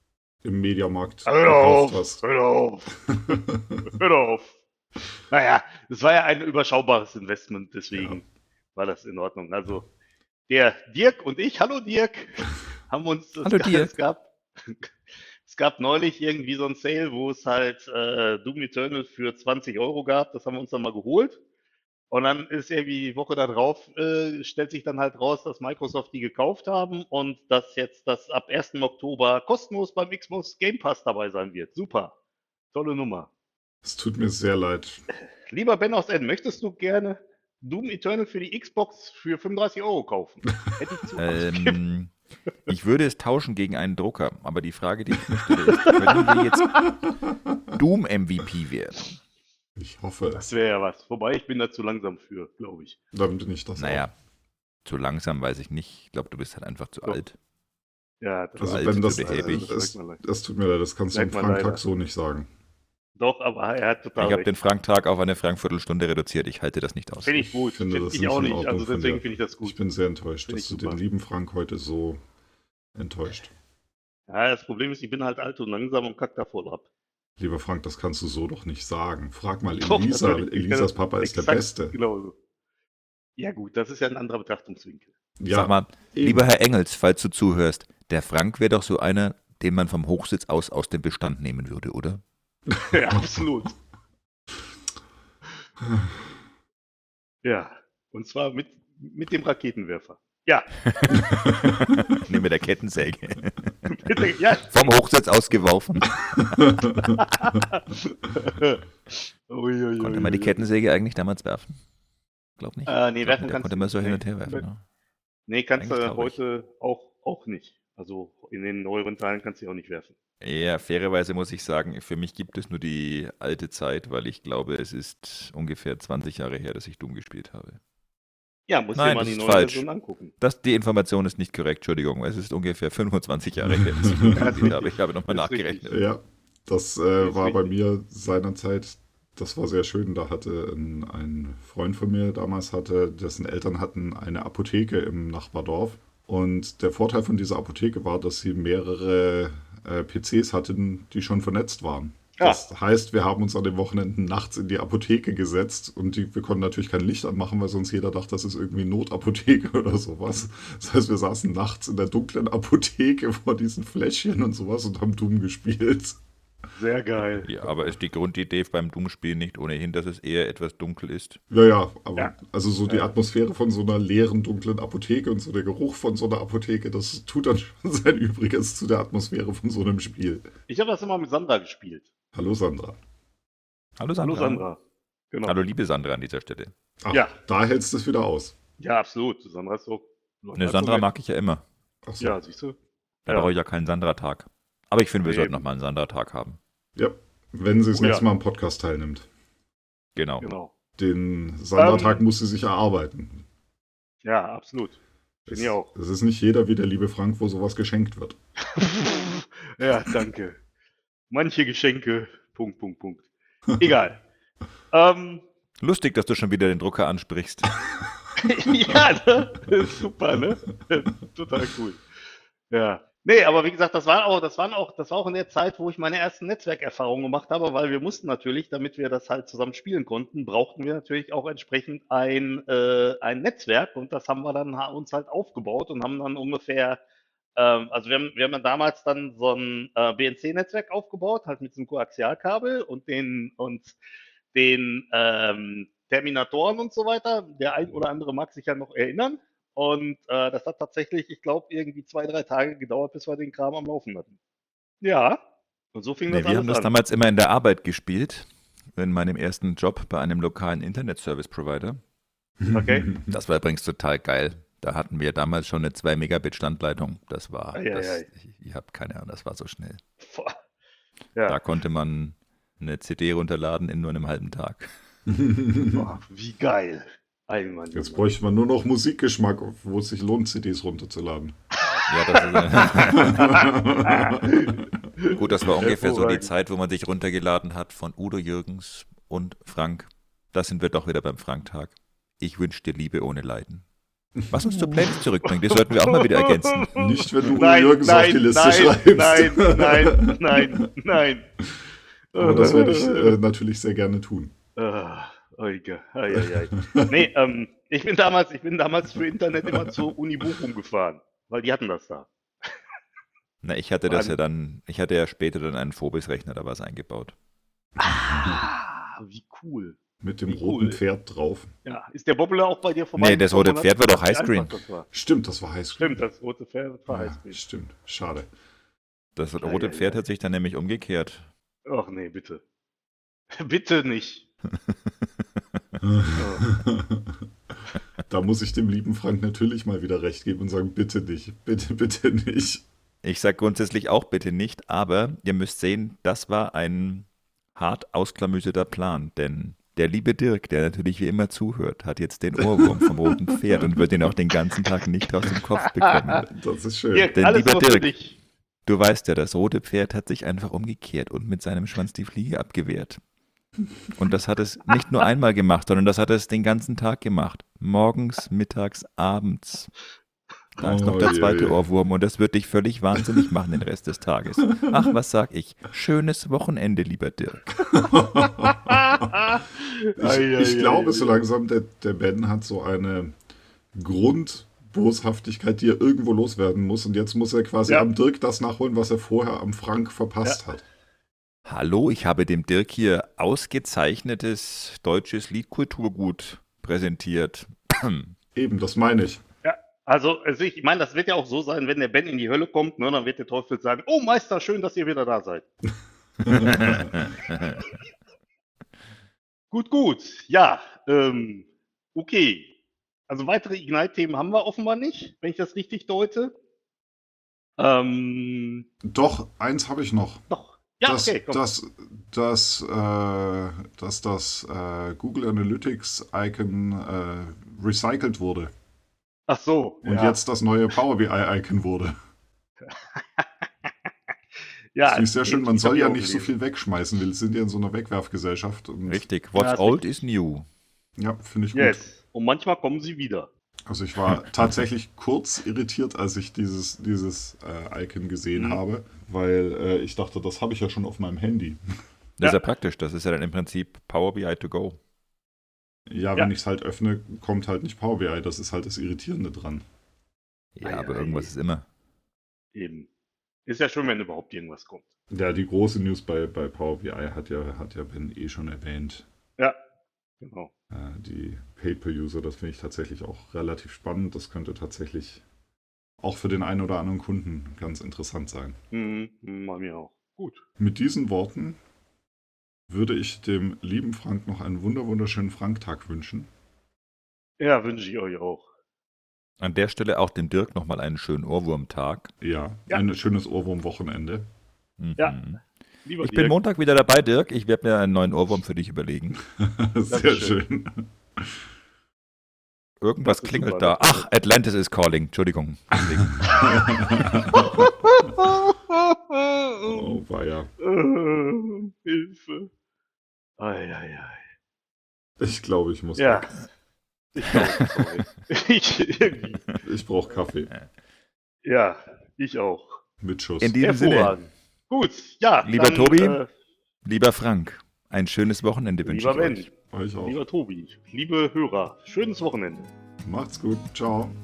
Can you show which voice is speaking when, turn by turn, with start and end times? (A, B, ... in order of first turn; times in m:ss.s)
0:00.4-0:02.2 A
0:01.2-0:03.1 B
0:03.3-0:03.8 A
0:03.9-0:04.5 B
0:05.3-0:09.9 B
0:07.9-0:08.2 A
0:10.5-0:14.9 B
0:13.4-0:13.9 C
0:15.4-0:21.4 B
0:22.1-0:32.1 B
0:32.7-0:33.3 B
0:33.8-0:35.0 A
0:35.5-0:41.8 B
0:41.2-0:42.1 C
0:42.7-0:47.1 C
0:45.7-0:46.1 B
0:47.7-0:49.1 C
0:49.8-0:50.5 A
0:50.3-0:53.0 B
0:53.1-0:54.0 A
0:53.8-0:54.1 C
0:54.8-0:57.4 C
0:58.2-1:00.2 B
0:58.6-1:02.5 A
0:58.6-0:59.7 C
1:01.1-1:01.8 B
1:03.2-1:04.5 B
1:04.2-1:07.5 C
1:07.2-1:09.8 B
1:07.5-1:12.2 A
1:10.5-1:11.0 B
1:13.0-1:13.5 A
1:14.3-1:16.8 B
1:17.4-1:22.0 A
1:19.8-1:22.4 B
1:23.4-1:25.1 B
1:25.4-1:26.4 A
1:25.5-1:32.2 C
1:32.7-1:33.3 A
1:32.9-1:33.7 B
1:37.4-1:40.7 B
1:41.0-1:46.8 C
1:43.9-1:44.7 B
1:47.2-1:50.6 B
1:50.0-1:51.8 C
1:52.6-1:54.8 C
1:52.9-1:54.6 B
1:55.5-2:00.1 B
1:55.8-1:56.4 C
2:00.4-2:07.8 C
2:08.7-2:10.3 B
2:08.9-2:16.0 C
2:14.2-2:15.9 B
2:15.8-2:46.2 A
2:17.2-2:17.7 B
2:46.8-2:47.5 B
2:47.4-2:51.4 C
2:51.5-3:00.5 A
2:52.9-2:53.1 B
3:00.7-3:02.1 B
3:02.3-3:03.0 A
3:04.0-3:04.6 C
3:04.2-3:04.8 B
3:05.3-3:05.6 B
3:05.4-3:06.7 C
3:07.0-3:08.5 A
3:08.8-3:11.1 B
3:10.6-3:11.6 C
3:12.0-3:12.4 A
3:12.2-3:12.8 B
3:13.2-3:16.6 C
3:15.2-3:15.6 B
3:17.0-3:19.2 A
3:18.0-3:18.2 B
3:20.2-3:20.5 C
3:20.4-3:20.7 B
3:21.0-3:23.4 A
3:21.8-3:22.2 B
3:24.2-3:25.0 B
3:25.5-3:28.4 A
3:25.5-3:25.9 B
3:28.7-3:30.6 B
3:31.3-3:33.3 B
3:33.8-3:34.2 B
3:34.9-3:35.4 B
3:35.8-3:37.7 C
3:38.4-3:42.0 B
3:42.7-3:57.0 B
3:57.6-4:04.0 B
4:04.5-4:14.3 B
4:15.0-4:15.4 B
4:15.9-4:16.9 B
4:16.3-4:22.0 C
4:22.6-4:23.3 A
4:22.7-4:23.1 B
4:23.3-4:30.0 C
4:27.7-4:28.3 B
4:30.2-4:30.6 B
4:31.4-4:34.9 C
4:35.3-4:36.0 A
4:35.9-4:38.3 B
4:37.9-4:41.6 A
4:41.8-4:46.5 B
4:42.1-4:43.6 C
4:43.3-4:44.5 A
4:45.3-4:53.8 C
4:54.5-4:57.0 C
4:55.4-4:57.0 B
4:56.9-5:00.8 A
4:57.6-5:01.5 B
5:02.3-5:03.4 B
5:02.3-5:04.5 A
5:04.8-5:12.3 B
5:06.7-5:07.2 A
5:13.6-5:17.3 C
5:14.1-5:14.3 B
5:18.0-5:21.0 B
5:18.0-5:18.6 A
5:20.2-5:21.7 A
5:21.8-5:25.1 B
5:23.1-5:24.7 C
5:25.1-5:26.2 A
5:26.0-5:27.6 B
5:27.1-5:28.5 A
5:29.4-5:31.4 C
5:29.6-5:30.2 B
5:31.8-5:32.6 B
5:33.5-5:34.4 B
5:36.1-5:37.4 A
5:36.4-5:36.7 B
5:38.3-5:42.8 A
5:43.2-5:56.5 C
5:56.4-5:57.3 A
5:57.1-5:58.4 B
5:57.3-5:58.1 C
5:58.8-6:03.2 C
6:04.1-6:09.9 C
6:10.8-6:17.7 C
6:10.8-6:11.8 A
6:17.9-6:19.3 A
6:18.6-6:21.4 B
6:20.2-6:23.3 A
6:23.9-6:30.8 A
6:31.6-6:38.3 C
6:38.5-6:39.4 A
6:39.6-6:45.6 B
6:46.4-6:47.1 A
6:46.5-6:47.8 C
6:49.7-6:52.7 B
6:53.3-6:56.5 B
6:57.8-6:58.8 B
6:59.0-7:00.4 A
7:00.5-7:01.6 B
7:01.0-7:08.7 A
7:09.5-7:10.4 B
7:10.0-7:12.1 A
7:12.9-7:13.9 B
7:14.9-7:16.5 B
7:15.0-7:19.2 A
7:19.1-7:20.6 C
7:19.5-7:20.1 B
7:21.2-7:22.1 A
7:21.7-7:23.5 B
7:23.9-7:31.8 A
7:28.5-7:28.8 B
7:32.4-7:35.0 C
7:36.1-7:39.8 A
7:40.8-7:41.8 C
7:40.8-7:41.5 B
7:42.7-7:43.1 B
7:43.6-7:45.1 B
7:45.3-7:49.2 A
7:50.4-7:50.7 B
7:50.9-7:55.4 A
7:56.2-7:58.8 A
7:58.9-8:00.6 B
8:00.8-8:01.8 A
8:02.9-8:06.5 A
8:07.6-8:08.7 B
8:09.6-8:12.3 C
8:12.4-8:14.5 A
8:15.0-8:15.6 C
8:16.0-8:16.6 B
8:16.2-8:19.4 C
8:19.6-8:21.5 A
8:20.1-8:20.6 B
8:23.0-8:26.9 C
8:23.2-8:24.2 B
8:26.6-8:27.6 A
8:27.5-8:30.1 B
8:29.8-8:30.7 A
8:30.8-8:32.7 B
8:33.6-8:34.4 B
8:35.4-8:36.6 A
8:36.2-8:36.6 B
8:37.3-8:39.6 B
8:37.8-8:38.0 C
8:39.8-8:40.7 A
8:41.6-8:43.0 B
8:43.2-8:43.8 A
8:43.6-8:44.4 C
8:43.8-8:46.5 B
8:45.6-8:46.4 C
8:47.0-8:49.7 C
8:49.0-8:49.7 B
8:49.9-8:50.4 A
8:50.2-8:52.9 B
8:53.2-8:54.3 A